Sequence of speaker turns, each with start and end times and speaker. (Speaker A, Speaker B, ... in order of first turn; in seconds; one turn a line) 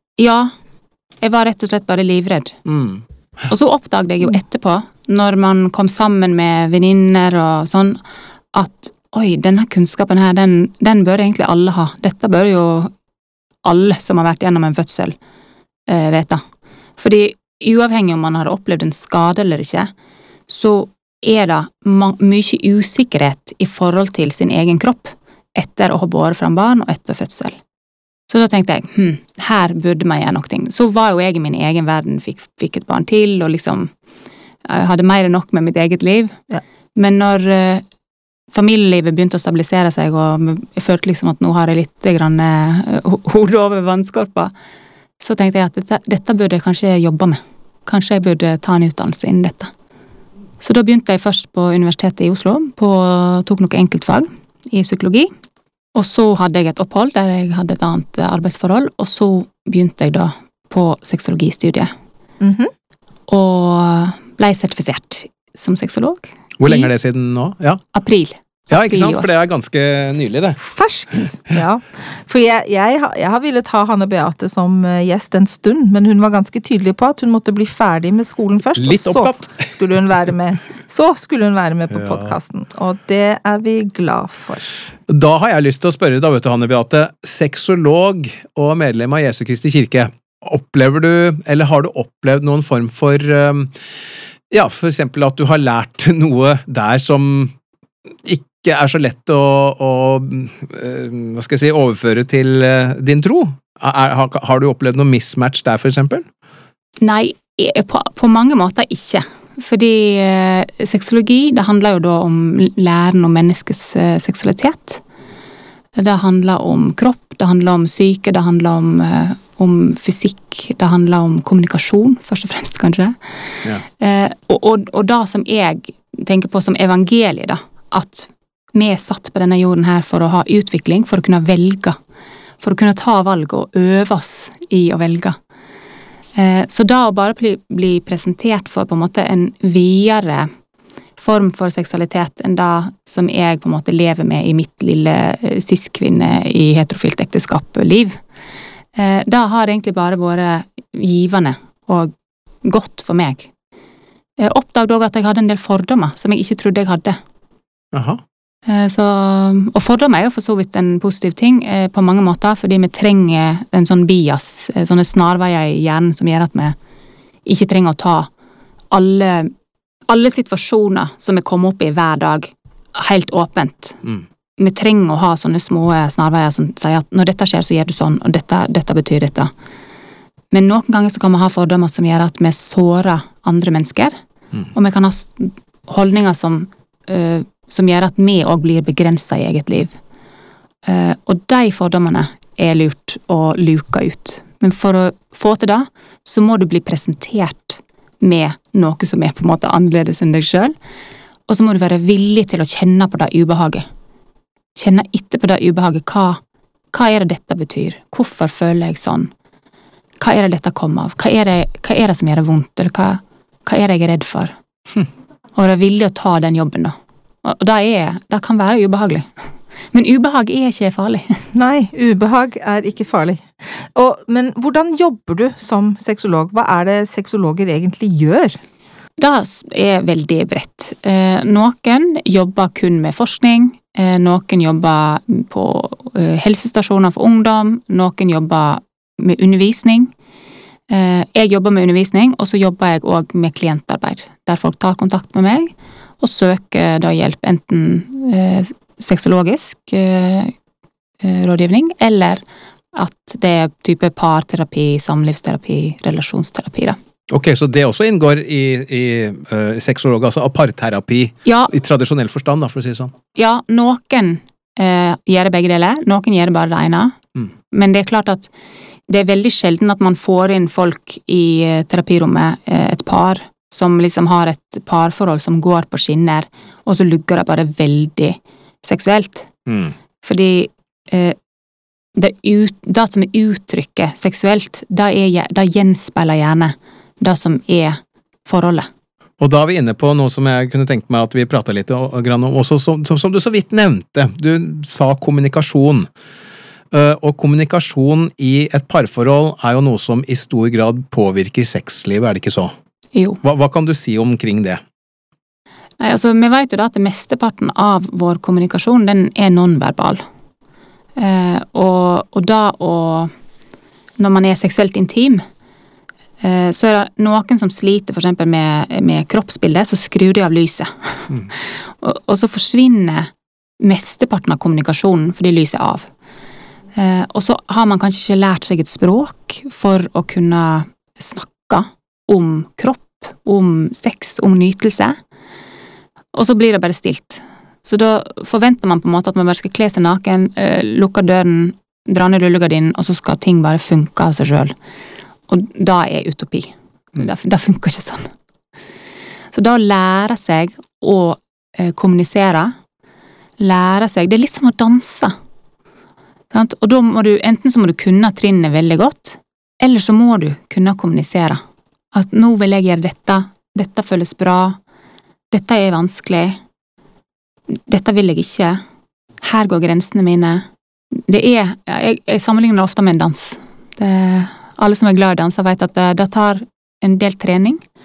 Speaker A: 0.2-0.5
Speaker A: 1.2-2.5
Speaker B: 2.6-3.0
Speaker A: 3.5-8.0
Speaker A: 8.5-12.9
Speaker A: 13.6-15.2
Speaker A: 15.9-16.4
Speaker A: 17.0-19.9
Speaker A: 20.5-27.6
Speaker A: 28.3-33.9
Speaker A: 34.6-36.4
Speaker A: 37.0-37.8
Speaker A: 38.5-44.5
Speaker A: 45.2-49.7
Speaker A: 50.6-55.3
Speaker A: 55.9-61.9
Speaker C: 62.4-62.7
Speaker A: 63.3-66.9
Speaker B: 66.6-67.8
Speaker A: 67.9-69.3
Speaker B: 68.7-70.6
Speaker C: 70.6-84.7
Speaker B: 78.8-79.7
Speaker B: 81.9-82.3
Speaker B: 85.1-93.8
Speaker B: 94.5-97.5
Speaker B: 98.2-106.2
Speaker A: 107.0-115.0
Speaker A: 116.0-132.0
Speaker A: 132.6-135.3
Speaker A: 136.3-140.5
Speaker A: 141.2-148.2
Speaker A: 148.9-152.1
Speaker A: 152.6-153.5
Speaker A: 154.4-157.2
Speaker B: 157.9-158.2
Speaker A: 158.7-166.7
Speaker A: 167.4-168.3
Speaker A: 168.9-169.5
Speaker A: 170.1-174.0
Speaker A: 174.6-179.5
Speaker A: 180.5-184.2
Speaker A: 184.7-189.9
Speaker A: 190.8-200.7
Speaker A: 201.5-203.8
Speaker A: 204.8-206.4
Speaker A: 206.9-209.3
Speaker A: 210.2-214.5
Speaker A: 215.5-219.3
Speaker A: 219.9-221.4
Speaker C: 221.5-228.6
Speaker A: 229.2-240.1
Speaker A: 240.9-250.5
Speaker A: 251.2-252.4
Speaker A: 252.9-257.0
Speaker B: 257.3-263.1
Speaker A: 261.4-261.7
Speaker A: 263.3-267.2
Speaker A: 267.7-268.5
Speaker A: 269.1-279.5
Speaker B: 279.7-279.9
Speaker A: 280.2-281.4
Speaker A: 282.1-288.9
Speaker B: 289.4-296.1
Speaker B: 296.9-302.7
Speaker A: 303.1-303.4
Speaker B: 303.4-304.8
Speaker A: 306.0-310.2
Speaker A: 311.2-313.3
Speaker A: 314.2-315.4
Speaker A: 316.4-326.1
Speaker A: 326.9-335.1
Speaker A: 336.3-344.7
Speaker A: 345.5-348.3
Speaker A: 349.5-352.7
Speaker A: 353.6-355.3
Speaker A: 356.5-361.6
Speaker A: 362.1-364.8
Speaker A: 365.5-366.6
Speaker A: 367.7-368.8
Speaker A: 369.4-370.6
Speaker A: 371.3-377.8